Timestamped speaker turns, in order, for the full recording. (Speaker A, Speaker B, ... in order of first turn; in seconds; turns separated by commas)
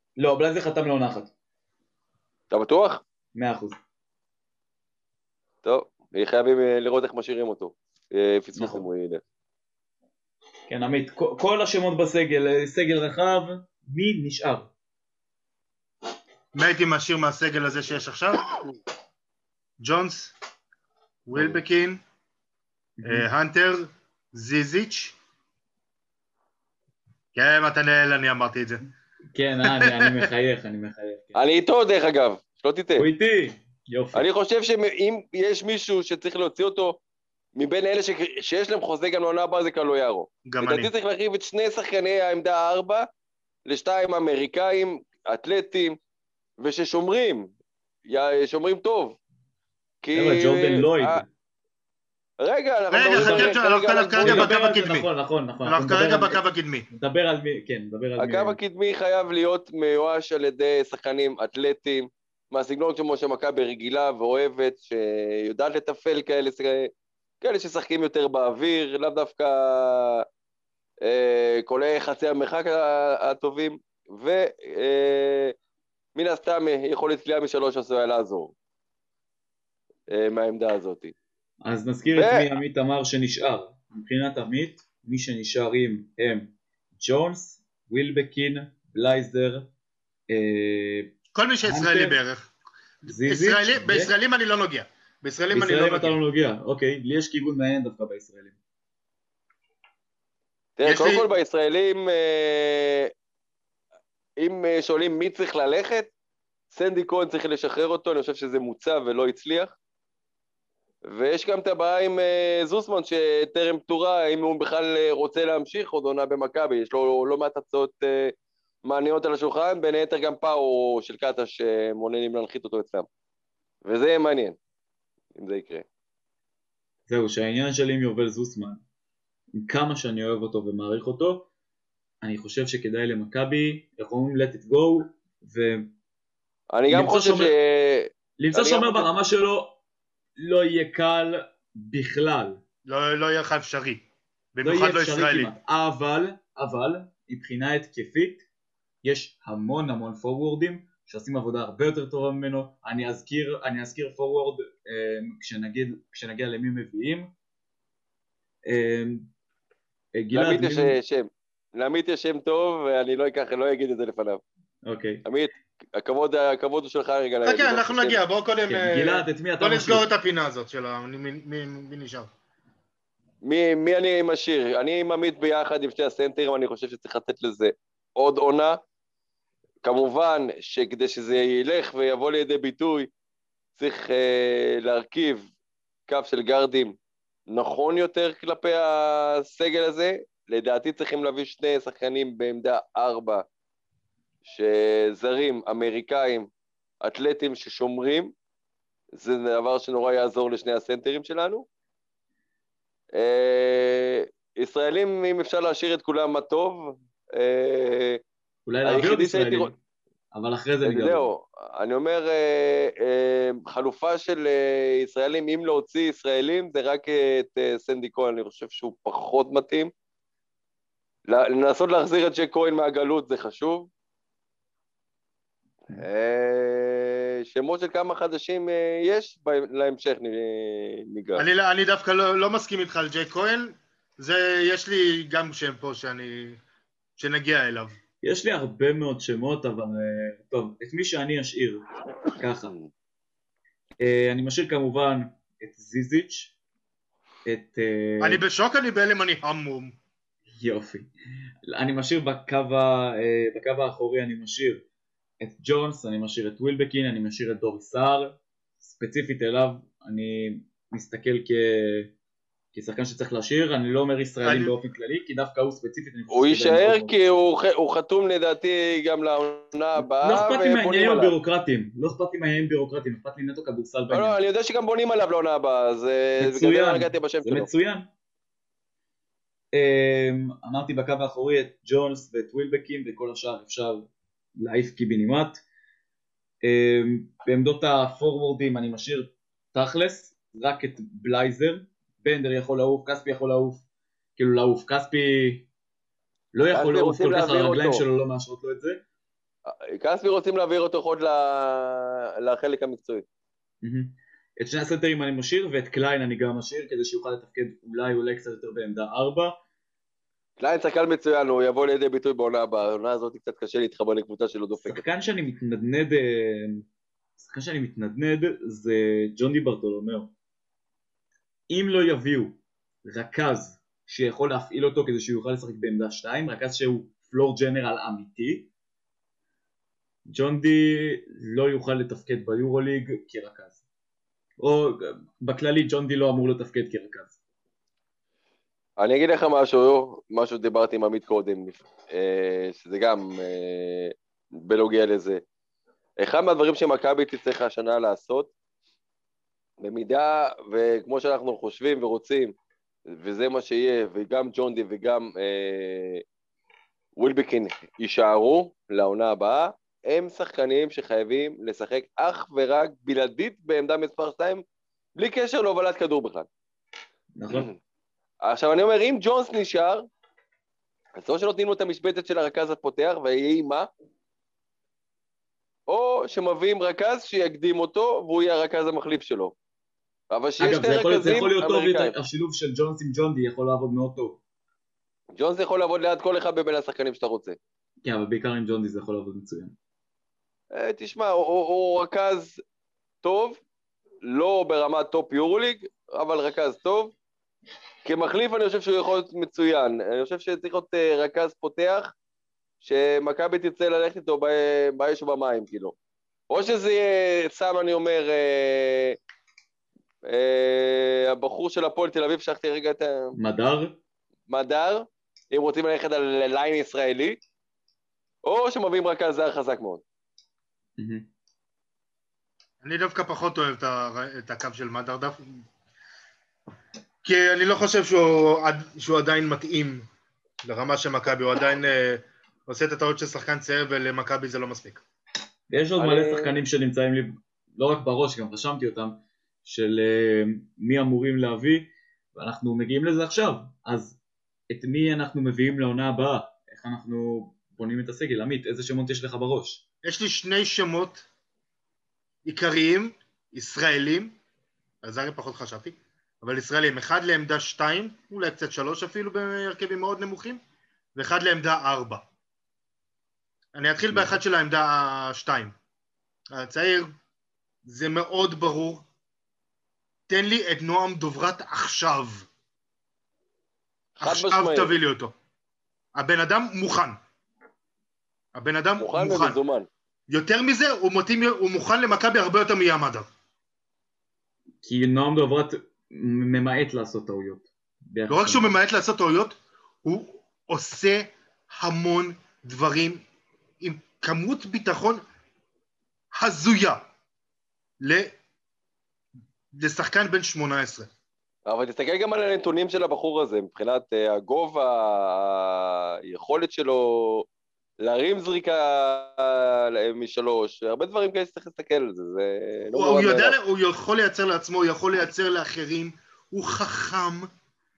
Speaker A: 0.2-1.3, Speaker B: 2.5-3.0, Speaker A: 3.3-3.8, Speaker B: 5.6-9.2, Speaker A: 8.5-8.8, Speaker A: 10.7-14.7, Speaker C: 16.5-18.4, Speaker C: 19.8-20.3, Speaker C: 21.3-22.0, Speaker A: 23.0-23.3, Speaker C: 23.0-25.2, Speaker C: 27.3-28.9, Speaker A: 29.3-31.4, Speaker C: 29.6-30.2, Speaker B: 31.3-33.1, Speaker A: 33.0-34.2, Speaker B: 34.1-37.0, Speaker B: 37.5-43.1, Speaker C: 40.5-40.9, Speaker B: 43.6-46.0, Speaker B: 46.6-47.5, Speaker B: 48.0-49.2, Speaker B: 50.0-51.2, Speaker A: 50.1-51.3, Speaker B: 52.4-54.5, Speaker C: 52.9-55.1, Speaker A: 53.1-53.6, Speaker A: 54.2-58.6, Speaker C: 55.6-56.9, Speaker B: 58.2-70.2, Speaker B: 71.0-75.5, Speaker B: 76.1-78.5, Speaker B: 80.1-81.1, Speaker A: 81.6-89.7, Speaker B: 82.1-82.5, Speaker A: 90.3-91.1, Speaker C: 91.3-92.5, Speaker A: 91.6-92.2, Speaker C: 93.0-96.2, Speaker A: 93.0-94.1, Speaker A: 95.5-98.6, Speaker B: 100.8-103.1, Speaker C: 100.8-101.3, Speaker B: 104.4-106.1, Speaker B: 106.7-109.7, Speaker B: 111.0-123.1, Speaker B: 123.8-124.6, Speaker B: 125.4-125.8, Speaker A: 127.1-128.8, Speaker A: 129.6-131.5, Speaker A: 132.2-135.9, Speaker B: 136.7-139.1, Speaker A: 136.9-137.5, Speaker A: 138.4-139.8, Speaker A: 140.4-142.6, Speaker C: 142.8-145.5, Speaker A: 144.6-148.4, Speaker A: 149.0-157.3, Speaker A: 158.7-159.3, Speaker A: 160.2-161.0, Speaker B: 160.3-164.4, Speaker A: 164.8-165.2, Speaker B: 165.2-168.2, Speaker C: 167.4-172.3, Speaker A: 168.7-170.1, Speaker B: 173.4-178.8, Speaker B: 179.8-183.1, Speaker B: 183.8-185.5, Speaker B: 186.1-187.0, Speaker B: 187.5-193.4, Speaker B: 194.4-196.5, Speaker B: 197.0-198.3, Speaker B: 199.1-201.7, Speaker B: 203.1-208.2, Speaker A: 208.7-209.8, Speaker B: 208.8-209.7, Speaker A: 210.3-211.3, Speaker B: 210.8-219.9, Speaker B: 221.3-223.9, Speaker B: 225.9-231.4, Speaker C: 231.3-236.6, Speaker C: 237.2-238.0, Speaker A: 238.2-242.7, Speaker A: 244.0-246.5, Speaker A: 247.4-248.4, Speaker C: 248.2-249.9, Speaker A: 250.5-251.1, Speaker A: 251.7-254.8, Speaker A: 255.4-262.1, Speaker A: 262.7-267.1, Speaker C: 264.4-264.7, Speaker B: 266.3-271.3, Speaker A: 270.0-274.3, Speaker B: 274.1-277.7, Speaker A: 276.4-278.1, Speaker A: 279.7-285.6, Speaker A: 286.6-293.8, Speaker A: 294.4-295.7, Speaker A: 296.5-299.0, Speaker B: 296.7-298.0, Speaker B: 299.6-303.2, Speaker A: 303.8-309.6, Speaker B: 310.6-315.0, Speaker A: 314.8-316.8, Speaker A: 317.4-320.3, Speaker A: 321.7-328.7, Speaker A: 330.2-333.8, Speaker A: 334.6-337.4, Speaker B: 339.0-345.4, Speaker B: 346.2-348.5, Speaker B: 349.8-352.5, Speaker B: 353.1-356.2, Speaker B: 357.1-364.6, Speaker B: 365.1-366.5, Speaker A: 367.4-367.7, Speaker B: 368.4-370.0, Speaker B: 371.1-373.9, Speaker B: 375.9-379.5, Speaker B: 380.3-382.1, Speaker A: 380.6-384.4, Speaker B: 385.4-387.6, Speaker A: 388.0-389.8, Speaker B: 390.7-392.6, Speaker B: 393.2-393.6, Speaker B: 394.2-397.1, Speaker B: 398.0-402.1, Speaker B: 402.8-405.9, Speaker B: 406.5-409.2, Speaker B: 410.2-413.3, Speaker A: 413.4-414.0, Speaker B: 414.5-417.4, Speaker B: 418.4-420.0, Speaker A: 421.0-421.3, Speaker C: 422.8-425.6, Speaker C: 427.2-430.1, Speaker C: 430.6-435.0, Speaker A: 435.7-444.2, Speaker B: 436.0-436.6, Speaker A: 444.7-449.8, Speaker C: 450.0-451.2, Speaker C: 452.4-454.4, Speaker C: 455.0-460.6, Speaker C: 461.1-462.2, Speaker C: 463.7-465.7, Speaker A: 464.1-464.4, Speaker C: 466.5-467.1, Speaker C: 467.8-469.1, Speaker C: 470.3-472.5, Speaker B: 474.2-474.9, Speaker C: 474.2-475.3, Speaker C: 476.1-477.2, Speaker C: 478.5-479.6, Speaker B: 479.0-479.9, Speaker C: 480.3-483.3, Speaker A: 484.8-488.7, Speaker C: 488.3-493.2, Speaker C: 493.8-495.2, Speaker C: 496.3-497.1, Speaker C: 498.0-498.3, Speaker C: 499.7-501.1, Speaker B: 501.6-507.5, Speaker B: 508.0-513.5, Speaker C: 512.9-517.5